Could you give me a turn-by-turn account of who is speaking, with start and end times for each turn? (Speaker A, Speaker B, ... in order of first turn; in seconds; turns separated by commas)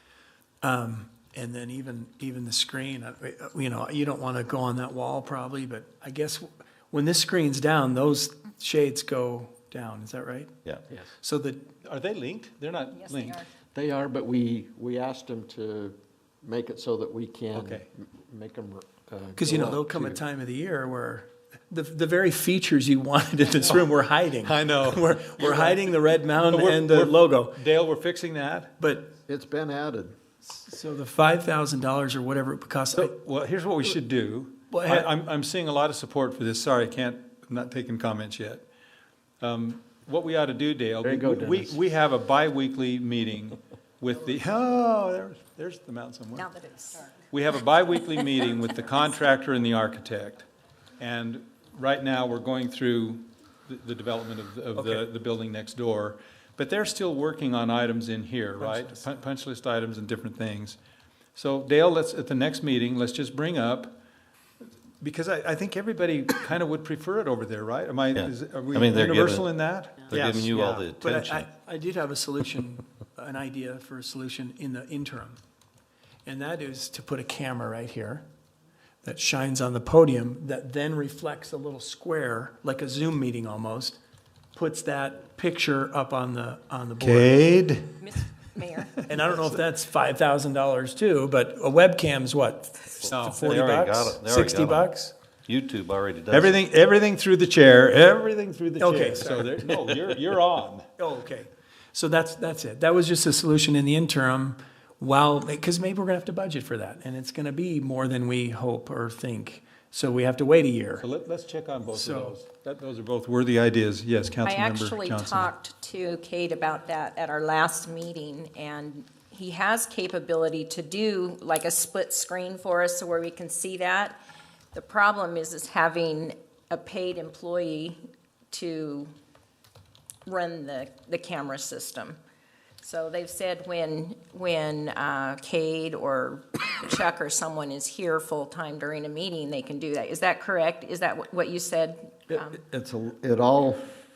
Speaker A: 0.6-10.5, Speaker A: 11.2-11.6, Speaker B: 11.8-13.5, Speaker C: 12.9-13.5, Speaker D: 13.8-20.2, Speaker B: 17.6-17.9, Speaker A: 19.4-27.6, Speaker B: 24.4-28.8, Speaker A: 28.8-29.1, Speaker D: 29.3-30.1, Speaker A: 30.4-33.1, Speaker B: 33.0-38.7, Speaker A: 34.7-35.1, Speaker B: 39.4-46.5, Speaker D: 41.0-41.8, Speaker C: 46.4-47.1, Speaker B: 47.3-50.5, Speaker B: 51.0-60.8, Speaker A: 58.6-59.1, Speaker B: 61.4-64.0, Speaker B: 65.0-70.4, Speaker E: 68.2-69.5, Speaker A: 70.1-75.4, Speaker E: 70.1-71.5, Speaker A: 76.3-78.2, Speaker A: 79.0-84.0, Speaker A: 84.5-87.4, Speaker B: 87.0-88.0, Speaker C: 88.0-89.0, Speaker A: 89.0-95.1, Speaker E: 93.0-94.9, Speaker B: 93.0-93.4, Speaker E: 95.5-96.6, Speaker B: 96.3-100.9, Speaker A: 98.8-99.8, Speaker A: 101.0-111.0, Speaker B: 111.0-115.5, Speaker A: 111.8-112.4, Speaker C: 114.4-124.2, Speaker C: 124.7-128.0, Speaker C: 128.5-129.1, Speaker C: 130.3-132.2, Speaker C: 132.8-142.6, Speaker D: 142.3-143.8